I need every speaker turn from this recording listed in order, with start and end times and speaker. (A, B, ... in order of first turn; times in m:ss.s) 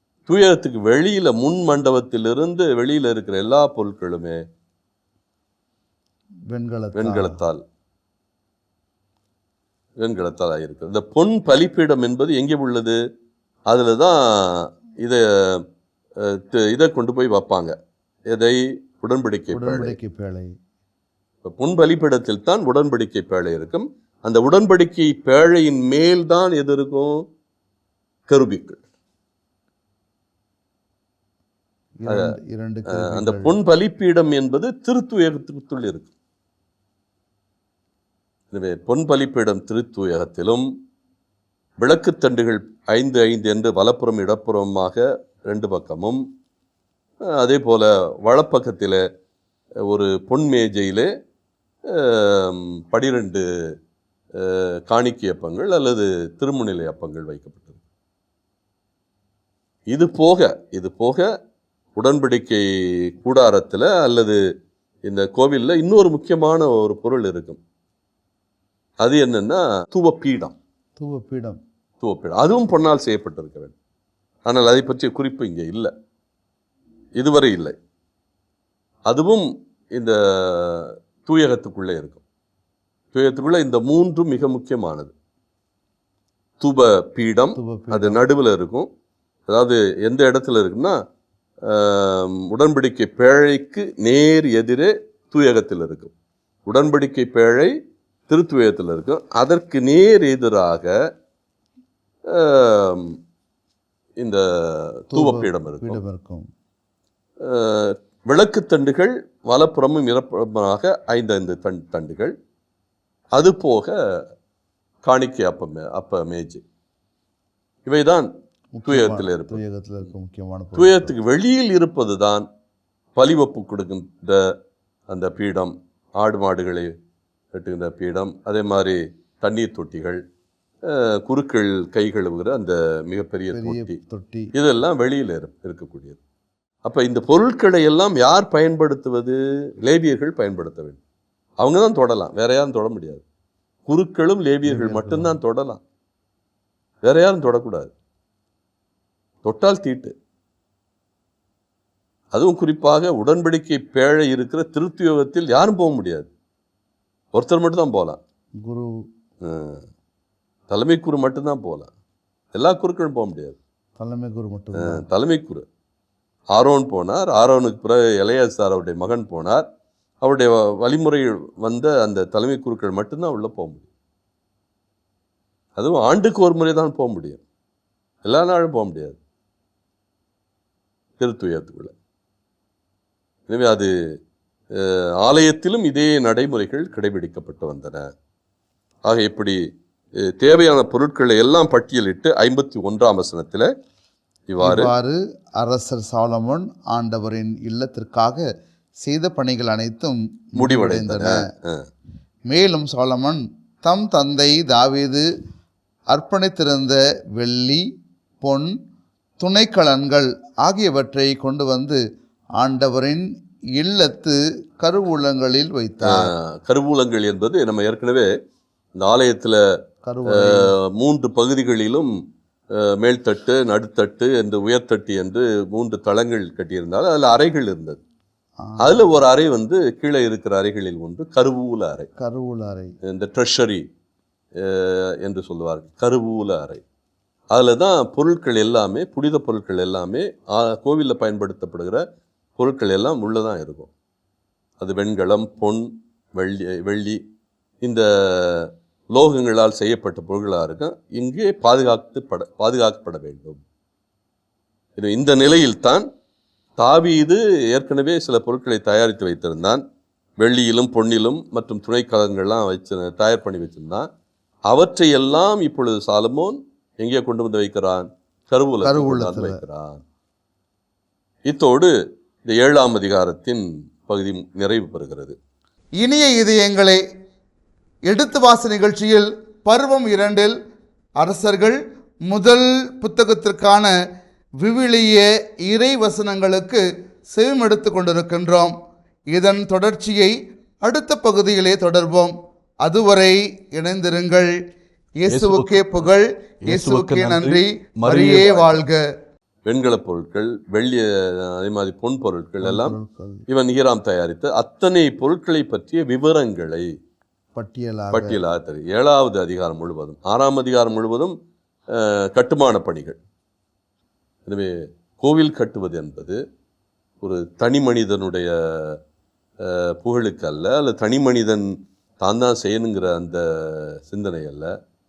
0:00.3-0:04.4 A
0:06.5-0:07.4 B
0:07.0-0:07.6 A
0:10.0-0:13.0 A
0:13.7-0:15.6 A
0:16.2-0:17.8 A
0:18.3-0:20.0 A
0:19.5-0:20.5 B
0:21.4-0:27.2 A
0:28.3-0:28.8 A
0:32.0-0:33.6 B
0:32.1-0:32.3 A
0:32.9-0:36.1 A
0:38.5-0:40.7 A
0:41.8-0:46.2 A
0:47.3-0:49.0 A
0:49.9-0:51.1 A
0:51.9-0:53.4 A
0:54.4-0:57.8 A
0:59.9-1:01.3 A
1:02.0-1:04.4 A
1:05.0-1:07.6 A
1:09.0-1:10.5 A
1:11.0-1:11.6 B
1:12.0-1:13.7 A
1:14.5-1:15.9 A
1:17.2-1:17.8 A
1:19.1-1:22.2 A
1:23.1-1:25.1 A
1:26.6-1:28.9 A
1:27.6-1:28.2 B
1:29.5-1:31.0 A
1:31.6-1:36.1 A
1:36.7-1:37.7 A
1:38.3-1:40.9 A
1:42.3-1:43.2 A
1:44.2-1:46.0 A
1:45.1-1:46.5 B
1:47.4-1:52.3 A
1:53.4-1:54.0 A
1:55.0-1:56.6 A
1:57.9-1:58.3 A
1:58.8-2:01.1 B
1:58.9-1:59.6 A
2:00.8-2:02.5 A
2:03.2-2:04.6 A
2:05.1-2:06.9 A
2:07.5-2:10.2 A
2:10.8-2:14.0 A
2:13.5-2:14.5 B
2:14.6-2:16.2 A
2:16.8-2:21.0 A
2:21.6-2:23.2 A
2:23.9-2:25.8 A
2:24.6-2:25.4 B
2:27.0-2:27.9 A
2:29.4-2:30.1 A
2:32.3-2:36.3 A
2:37.3-2:38.2 A
2:38.6-2:38.9 B
2:39.4-2:39.8 A
2:40.7-2:41.9 A
2:42.5-2:43.6 A
2:44.0-2:45.0 B
2:44.8-2:45.6 A
2:46.5-2:49.7 A
2:50.2-2:53.9 A
2:55.8-2:57.4 A
2:58.2-2:59.2 A
3:01.2-3:01.9 A
3:03.5-3:03.9 A
3:04.7-3:08.1 A
3:09.1-3:09.6 A
3:10.2-3:13.7 A
3:14.5-3:14.9 A
3:14.6-3:18.4 B
3:19.0-3:21.5 B
3:20.6-3:21.9 A
3:22.5-3:25.3 B
3:26.1-3:27.9 B
3:28.4-3:28.7 B
3:29.4-3:32.0 B
3:32.6-3:36.3 B
3:36.0-3:38.3 A
3:39.0-3:39.6 A
3:40.0-3:40.7 B
3:40.3-3:42.1 A
3:42.7-3:48.0 A
3:48.6-3:49.0 B
3:48.8-3:52.1 A
3:52.2-3:52.9 B
3:53.1-3:53.8 A
3:54.6-3:56.8 A
3:57.5-4:02.0 A
4:02.6-4:03.9 A
4:04.8-4:07.2 A
4:07.8-4:13.6 A
4:15.0-4:16.1 A
4:16.8-4:19.8 A
4:20.4-4:24.1 A
4:24.7-4:30.0 A
4:28.8-4:29.6 B
4:31.5-4:31.9 A
4:32.5-4:35.4 A
4:36.0-4:37.0 B
4:38.1-4:40.6 B
4:41.2-4:43.9 B
4:44.6-4:48.8 B
4:49.3-4:54.5 B
4:55.2-4:59.0 B
4:55.3-4:56.0 A
4:56.7-4:58.8 A
4:59.7-5:03.0 A
5:02.6-5:03.4 B
5:03.5-5:06.9 A
5:07.6-5:08.4 B
5:08.1-5:11.4 A
5:11.9-5:13.2 A
5:14.5-5:16.4 A
5:17.2-5:19.0 A
5:19.6-5:24.7 A